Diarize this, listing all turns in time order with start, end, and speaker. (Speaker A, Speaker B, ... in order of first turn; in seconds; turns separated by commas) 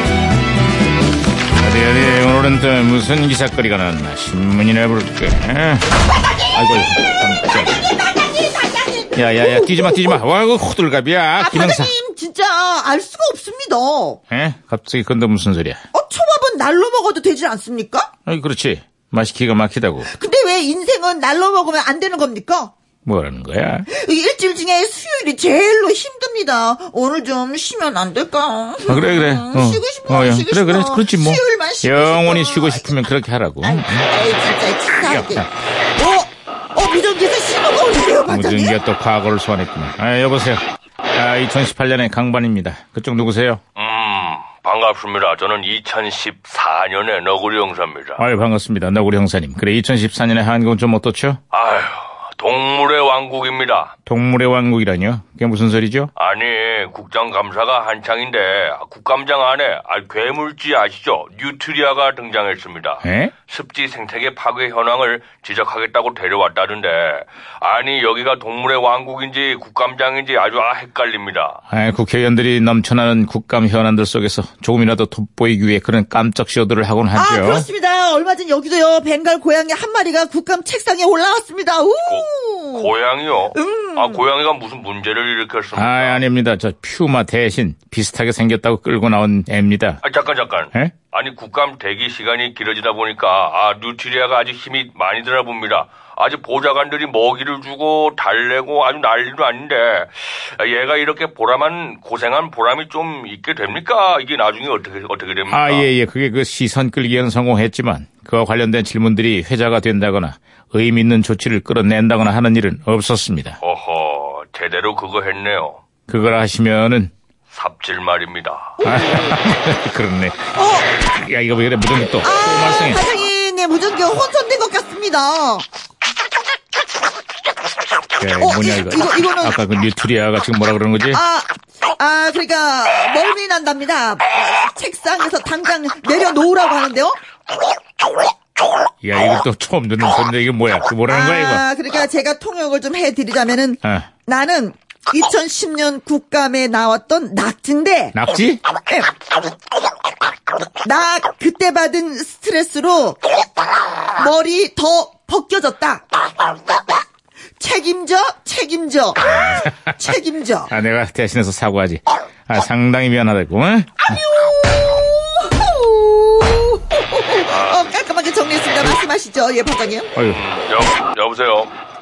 Speaker A: 1.6-5.9, Speaker A: 6.5-7.9, Speaker B: 7.5-10.2, Speaker A: 9.1-11.9, Speaker B: 11.4-14.2, Speaker A: 14.3-15.8, Speaker B: 15.9-18.1, Speaker A: 18.3-20.1, Speaker B: 20.0-22.7, Speaker A: 23.0-23.9, Speaker B: 23.9-32.9, Speaker A: 28.9-34.1, Speaker B: 33.6-38.8, Speaker A: 35.0-35.5, Speaker A: 38.3-40.6, Speaker A: 41.1-43.6, Speaker C: 43.8-48.2, Speaker A: 48.2-51.4, Speaker C: 51.5-53.9, Speaker A: 54.0-56.1, Speaker C: 56.1-71.6, Speaker A: 63.0-63.3, Speaker A: 71.7-77.7, Speaker B: 77.1-82.9, Speaker C: 82.0-86.2, Speaker B: 83.5-84.2, Speaker A: 85.7-90.0, Speaker C: 90.0-105.9, Speaker A: 105.5-113.6, Speaker C: 113.6-115.8, Speaker A: 116.1-117.1, Speaker C: 117.5-118.8, Speaker B: 118.8-119.3, Speaker A: 118.8-123.0, Speaker B: 120.5-120.9, Speaker B: 122.2-125.6, Speaker A: 128.2-131.2, Speaker B: 128.4-129.6, Speaker B: 131.1-137.2, Speaker A: 139.0-141.6, Speaker B: 141.1-148.2, Speaker A: 148.1-148.6, Speaker B: 148.8-149.1, Speaker B: 150.8-153.3, Speaker B: 154.1-156.0, Speaker B: 157.6-160.7, Speaker A: 159.2-160.1, Speaker A: 160.7-164.1, Speaker B: 164.1-170.1, Speaker C: 167.4-167.9, Speaker A: 170.2-170.4, Speaker C: 170.2-171.7